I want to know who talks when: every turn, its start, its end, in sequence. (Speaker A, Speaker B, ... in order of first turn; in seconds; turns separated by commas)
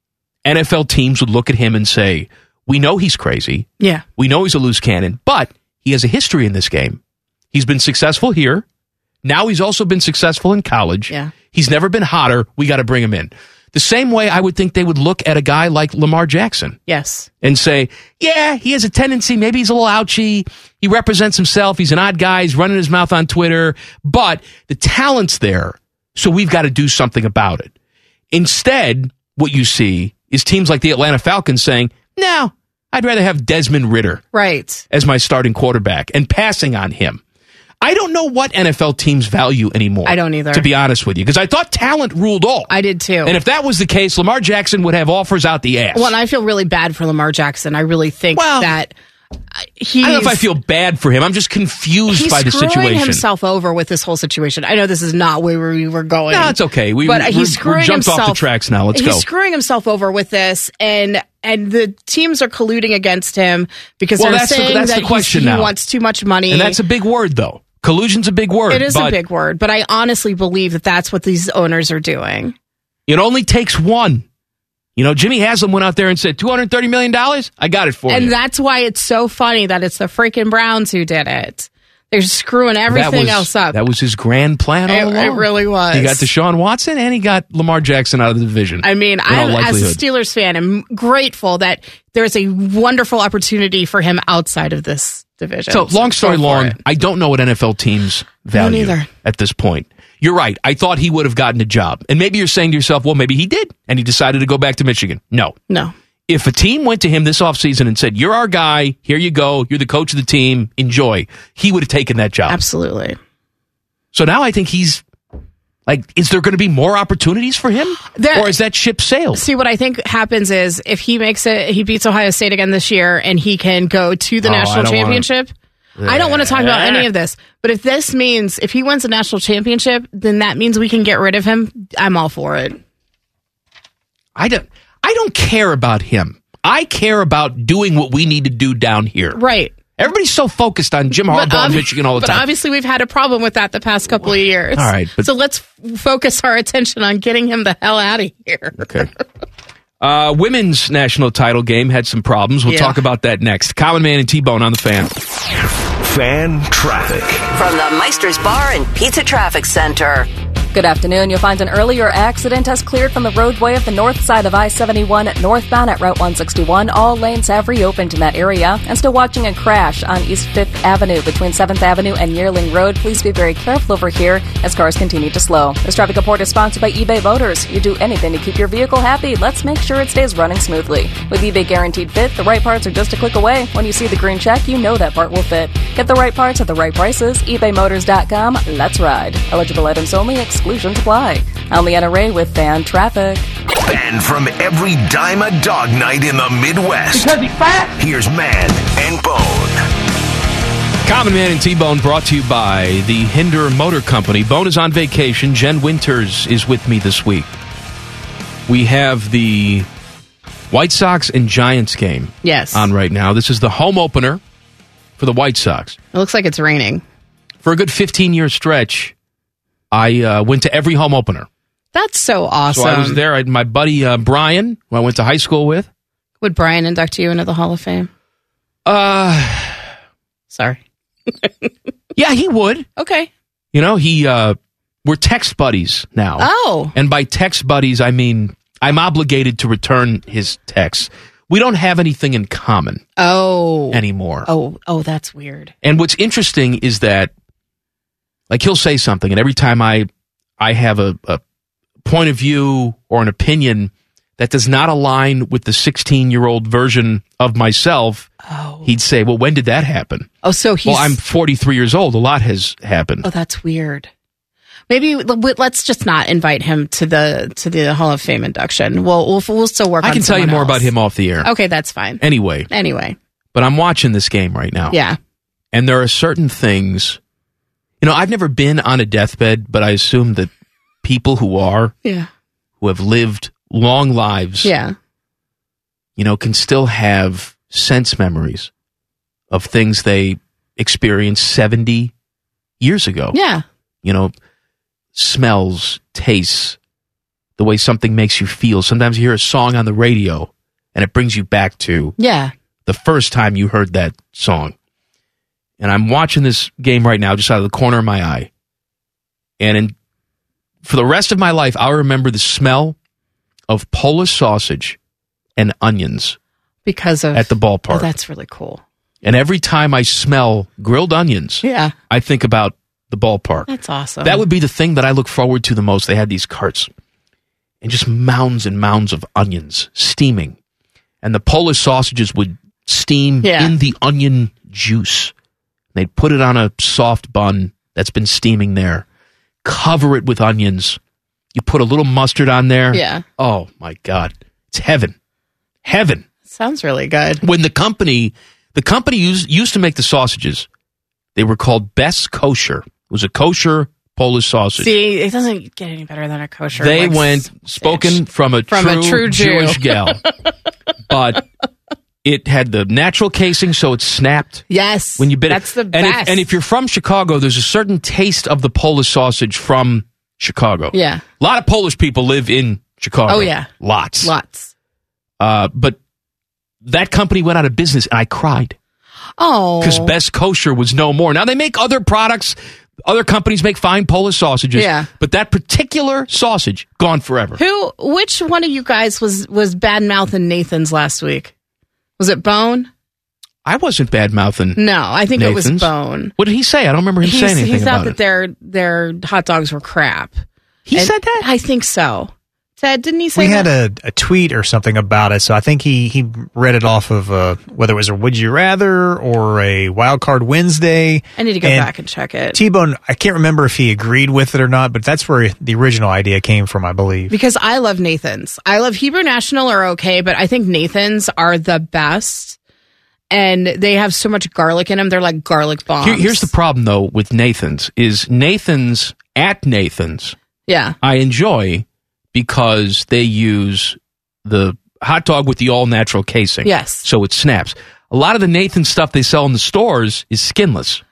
Speaker A: 0.4-7.0, Speaker A: 7.5-8.6, Speaker A: 9.2-16.8, Speaker B: 16.9-17.3, Speaker A: 17.4-27.7, Speaker A: 28.3-34.2, Speaker B: 34.3-34.8, Speaker A: 34.9-37.2, Speaker A: 37.8-42.7, Speaker B: 40.0-40.7, Speaker B: 42.7-43.3, Speaker A: 43.2-46.1, Speaker B: 45.9-48.9, Speaker A: 48.3-48.7, Speaker B: 49.6-50.4, Speaker A: 50.0-53.2, Speaker B: 52.1-66.8, Speaker A: 56.3-59.2, Speaker A: 64.2-65.7, Speaker A: 66.5-69.2, Speaker B: 68.7-72.5, Speaker A: 73.1-74.2, Speaker A: 75.0-78.3, Speaker B: 78.1-83.8, Speaker A: 82.9-90.0, Speaker B: 84.9-86.2, Speaker B: 88.8-96.8, Speaker A: 95.7-105.5, Speaker B: 98.5-99.1, Speaker B: 105.7-105.9, Speaker A: 106.3-112.6, Speaker B: 112.5-113.2, Speaker A: 114.1-115.0, Speaker A: 115.9-119.4, Speaker B: 118.0-118.5, Speaker B: 119.3-125.5, Speaker A: 124.4-125.2, Speaker A: 126.0-127.1, Speaker B: 126.0-132.8, Speaker A: 134.3-139.4, Speaker B: 139.3-139.8, Speaker A: 140.0-142.4, Speaker B: 141.3-148.9, Speaker A: 144.8-145.3, Speaker A: 148.8-149.1, Speaker A: 150.0-155.1, Speaker B: 152.7-153.0, Speaker C: 156.0-157.5, Speaker D: 157.5-160.3, Speaker E: 160.7-193.5, Speaker C: 193.8-197.3, Speaker A: 197.2-197.9, Speaker C: 198.0-199.8, Speaker A: 201.0-207.5, Speaker A: 208.7-209.9, Speaker A: 210.7-214.4, Speaker B: 212.4-212.9, Speaker A: 215.2-216.0, Speaker B: 216.1-217.0, Speaker A: 217.6-219.1, Speaker A: 219.9-221.5, Speaker B: 221.9-223.2, Speaker A: 222.7-225.9, Speaker B: 226.4-228.1, Speaker A: 228.8-229.8, Speaker B: 230.5-231.7, Speaker A: 232.1-232.9, Speaker B: 233.0-233.3, Speaker A: 233.7-243.0, Speaker B: 236.4-236.9, Speaker B: 243.2-245.7, Speaker A: 243.9-244.5, Speaker A: 245.8-247.3, Speaker A: 248.5-250.1, Speaker A: 250.6-251.4, Speaker A: 252.0-258.3, Speaker B: 258.4-258.9, Speaker A: 258.8-260.3, Speaker B: 260.4-261.2, Speaker A: 260.9-263.2, Speaker B: 263.2-264.1, Speaker B: 264.9-270.9, Speaker A: 270.0-271.5, Speaker B: 271.4-273.2, Speaker A: 272.2-272.7, Speaker A: 273.5-274.9, Speaker B: 274.9-275.2, Speaker A: 275.7-277.2, Speaker A: 278.0-280.5, Speaker A: 281.0-281.9, Speaker B: 282.0-282.3, Speaker A: 282.8-284.7, Speaker B: 284.6-284.9, Speaker A: 286.2-288.7, Speaker A: 289.5-292.1, Speaker A: 292.8-293.4, Speaker B: 293.3-293.6, Speaker A: 294.0-294.3, Speaker A: 295.1-296.8, Speaker A: 297.6-302.2, Speaker B: 302.2-302.5, Speaker A: 302.9-304.7, Speaker A: 305.8-308.5, Speaker A: 309.6-309.9, Speaker A: 310.8-312.9, Speaker A: 313.7-315.0, Speaker A: 315.6-316.4, Speaker B: 316.9-318.8, Speaker A: 317.3-318.1, Speaker A: 319.2-323.7, Speaker B: 321.6-321.9, Speaker B: 323.7-324.4, Speaker A: 324.2-326.9, Speaker A: 327.8-330.5, Speaker A: 331.2-335.3, Speaker B: 333.4-333.7, Speaker A: 335.9-339.0, Speaker A: 339.6-341.0, Speaker A: 341.5-345.1, Speaker B: 342.9-343.2, Speaker A: 345.8-346.2, Speaker B: 346.5-347.4, Speaker A: 347.4-350.7, Speaker A: 351.3-354.9, Speaker B: 354.8-360.2, Speaker A: 356.8-360.2, Speaker A: 361.1-361.5, Speaker A: 362.2-364.6, Speaker B: 364.7-366.4, Speaker A: 365.2-374.3, Speaker B: 370.9-371.2, Speaker B: 373.3-373.7, Speaker B: 374.2-374.7, Speaker A: 375.4-376.0, Speaker A: 376.8-378.8, Speaker B: 379.4-380.1, Speaker A: 379.8-387.6, Speaker B: 384.7-385.1, Speaker B: 387.6-391.5, Speaker B: 392.2-392.9, Speaker A: 393.6-398.1, Speaker B: 394.8-396.3, Speaker B: 397.2-400.4, Speaker A: 400.9-401.4, Speaker B: 400.9-403.7, Speaker F: 403.3-411.9, Speaker B: 411.4-412.6, Speaker F: 412.5-417.3, Speaker B: 417.3-422.6, Speaker B: 423.3-426.5, Speaker A: 426.0-430.3, Speaker B: 430.7-430.9, Speaker A: 431.0-441.0, Speaker B: 436.6-437.1